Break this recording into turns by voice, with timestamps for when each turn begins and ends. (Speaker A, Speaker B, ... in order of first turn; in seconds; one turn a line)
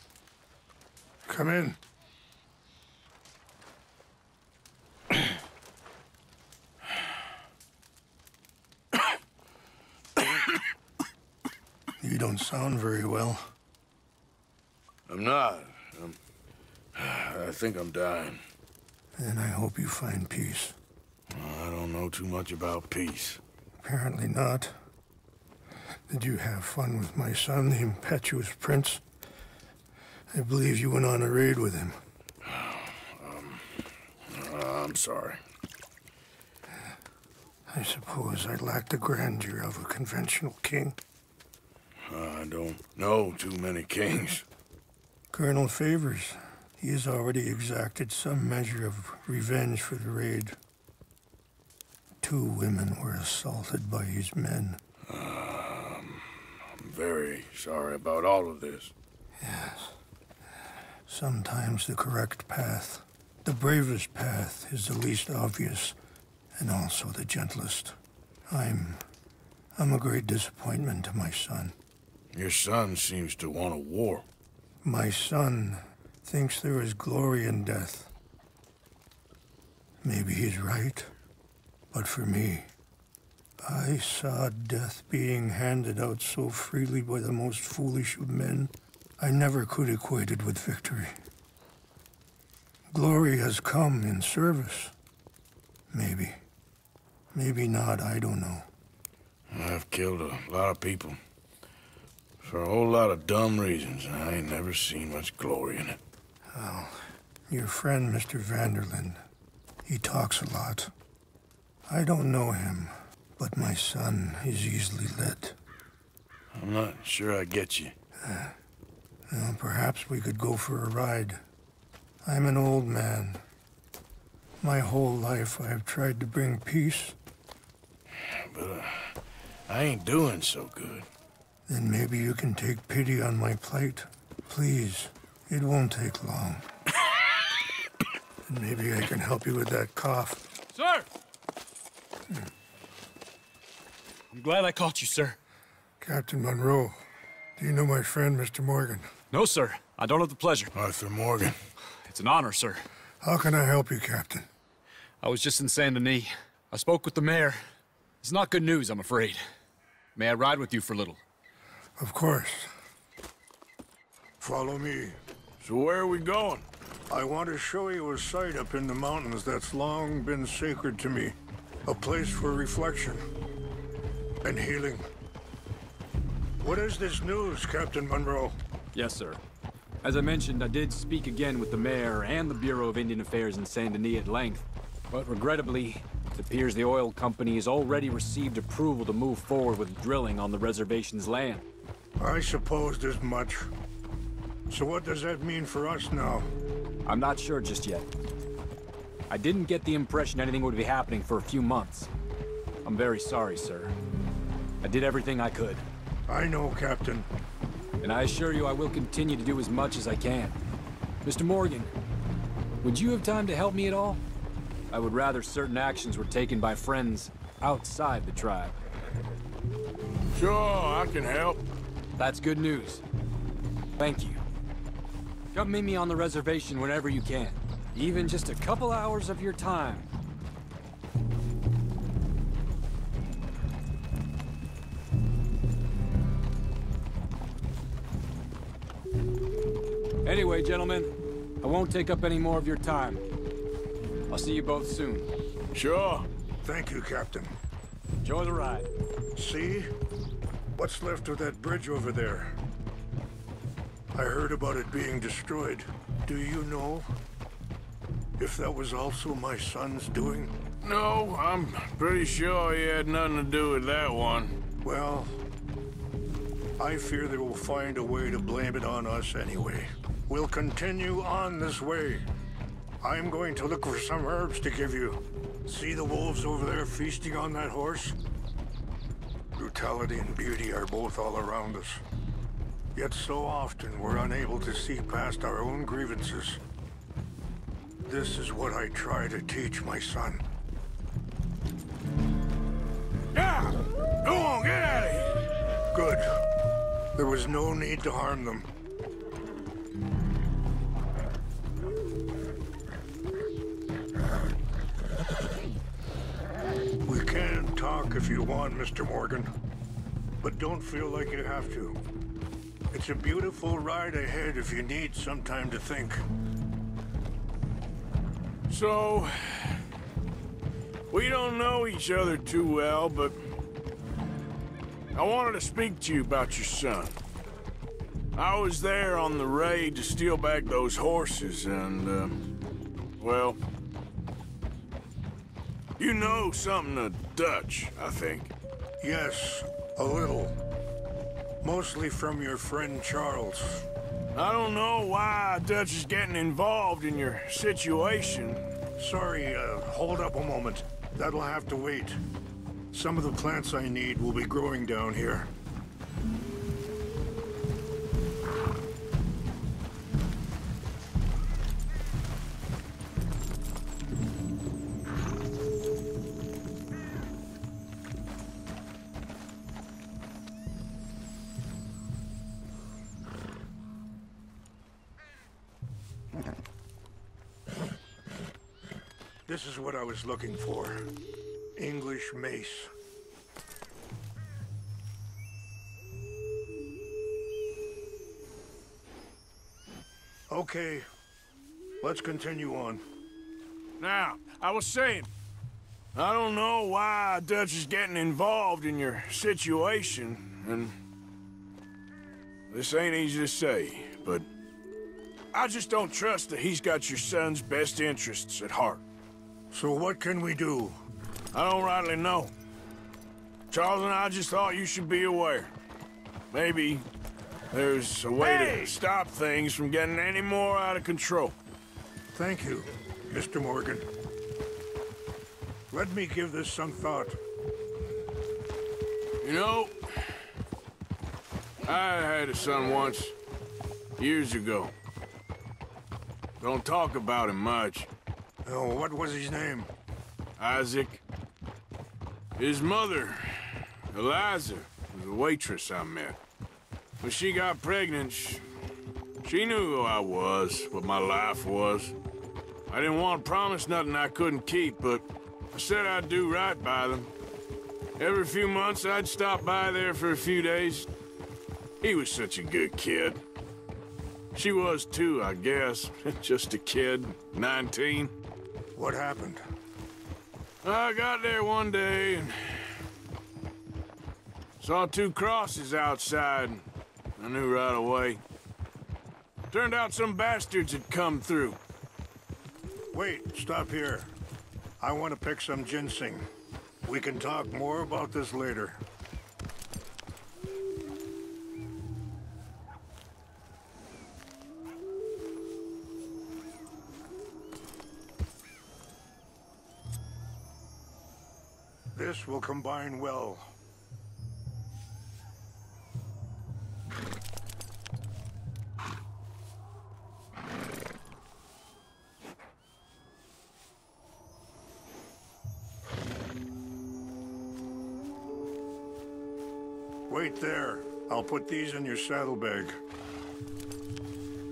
Speaker A: 1.3-1.8
Speaker A: 12.0-13.5
Speaker B: 15.1-16.2
Speaker B: 16.9-18.4
Speaker A: 19.2-20.8
Speaker B: 21.3-23.4
Speaker A: 23.8-24.8
Speaker A: 26.1-29.0
Speaker A: 30.3-32.0
Speaker B: 32.4-35.4
Speaker A: 37.7-41.0
Speaker B: 42.1-44.4
Speaker A: 45.3-50.6
Speaker A: 52.2-54.8
Speaker B: 55.1-56.3
Speaker B: 56.8-58.9
Speaker A: 59.4-60.0
Speaker A: 61.1-66.0
Speaker A: 66.5-69.0
Speaker A: 69.8-71.8
Speaker B: 72.3-74.2
Speaker A: 74.8-78.1
Speaker A: 80.0-81.1
Speaker A: 81.9-82.7
Speaker A: 83.6-91.1
Speaker A: 92.9-94.9
Speaker A: 95.9-96.4
Speaker A: 97.3-98.7
Speaker B: 99.5-101.2
Speaker B: 102.4-106.0
Speaker A: 106.5-109.2
Speaker A: 109.8-110.9
Speaker A: 111.9-115.6
Speaker B: 116.5-117.9
Speaker A: 118.2-118.5
Speaker A: 119.3-121.4
Speaker A: 122.2-123.4
Speaker A: 124.6-127.2
Speaker B: 128.5-129.2
Speaker B: 129.7-131.1
Speaker A: 131.7-136.7
Speaker A: 138.5-140.4
Speaker C: 140.7-141.1
Speaker C: 144.3-145.4
Speaker A: 146.0-147.0
Speaker A: 147.6-149.1
Speaker C: 149.3-150.7
Speaker B: 150.8-151.6
Speaker C: 152.0-152.8
Speaker A: 153.2-154.5
Speaker C: 155.2-157.6
Speaker C: 158.2-159.4
Speaker C: 160.2-161.2
Speaker A: 162.0-162.7
Speaker A: 164.4-165.2
Speaker B: 165.6-166.7
Speaker A: 167.1-173.2
Speaker A: 174.4-175.1
Speaker A: 176.6-178.6
Speaker C: 178.9-179.4
Speaker C: 180.0-191.6
Speaker A: 192.2-193.7
Speaker A: 194.7-196.5
Speaker C: 197.1-198.1
Speaker C: 199.3-202.1
Speaker C: 202.8-203.9
Speaker C: 204.8-205.8
Speaker A: 206.3-207.3
Speaker C: 208.0-210.6
Speaker C: 211.2-211.9
Speaker C: 212.8-214.2
Speaker C: 214.9-218.8
Speaker B: 220.3-221.6
Speaker C: 222.2-223.0
Speaker C: 224.0-224.4
Speaker C: 225.5-230.1
Speaker C: 240.2-243.2
Speaker C: 244.3-245.3
Speaker B: 245.7-246.3
Speaker A: 246.6-247.6
Speaker C: 248.2-248.9
Speaker A: 249.3-249.9
Speaker A: 250.8-252.6
Speaker A: 254.1-257.1
Speaker A: 258.4-260.5
Speaker B: 260.8-264.6
Speaker A: 264.8-265.4
Speaker A: 266.8-272.2
Speaker A: 273.0-278.2
Speaker A: 279.6-282.0
Speaker A: 282.9-286.6
Speaker A: 288.0-290.4
Speaker B: 293.3-295.4
Speaker A: 295.9-296.2
Speaker A: 297.1-298.7
Speaker A: 307.0-309.5
Speaker A: 310.4-312.0
Speaker A: 312.9-316.2
Speaker B: 318.7-319.8
Speaker B: 321.1-323.4
Speaker B: 325.1-327.2
Speaker B: 328.3-332.4
Speaker B: 333.2-333.6
Speaker B: 336.0-338.5
Speaker A: 339.0-340.6
Speaker A: 341.6-343.9
Speaker B: 344.3-348.6
Speaker A: 349.0-352.2
Speaker A: 352.9-355.5
Speaker A: 379.4-381.1
Speaker A: 381.8-382.9
Speaker A: 390.5-391.1
Speaker A: 392.0-393.0
Speaker B: 394.0-395.3
Speaker B: 396.1-400.9
Speaker B: 402.7-404.4
Speaker B: 405.5-409.0
Speaker A: 409.7-411.0
Speaker B: 411.5-412.5
Speaker B: 413.7-415.7
Speaker B: 416.5-417.1
Speaker B: 417.7-421.5
Speaker A: 418.4-418.9
Speaker A: 422.3-424.1
Speaker A: 425.9-427.4
Speaker B: 429.4-430.3
Speaker B: 431.8-433.3
Speaker B: 434.2-434.9
Speaker B: 436.6-438.1
Speaker A: 438.6-439.9
Speaker B: 440.6-441.2
Speaker B: 442.6-446.4
Speaker B: 447.2-448.6
Speaker B: 449.4-452.1
Speaker B: 452.9-457.3
Speaker B: 458.2-461.1
Speaker B: 462.0-463.4
Speaker B: 464.5-468.3
Speaker A: 468.9-469.6
Speaker B: 470.8-473.0
Speaker B: 474.8-476.8
Speaker B: 477.4-478.4
Speaker B: 479.7-481.8
Speaker A: 483.1-484.3
Speaker A: 485.0-486.4
Speaker A: 487.0-489.0
Speaker A: 502.1-503.7
Speaker A: 520.3-523.0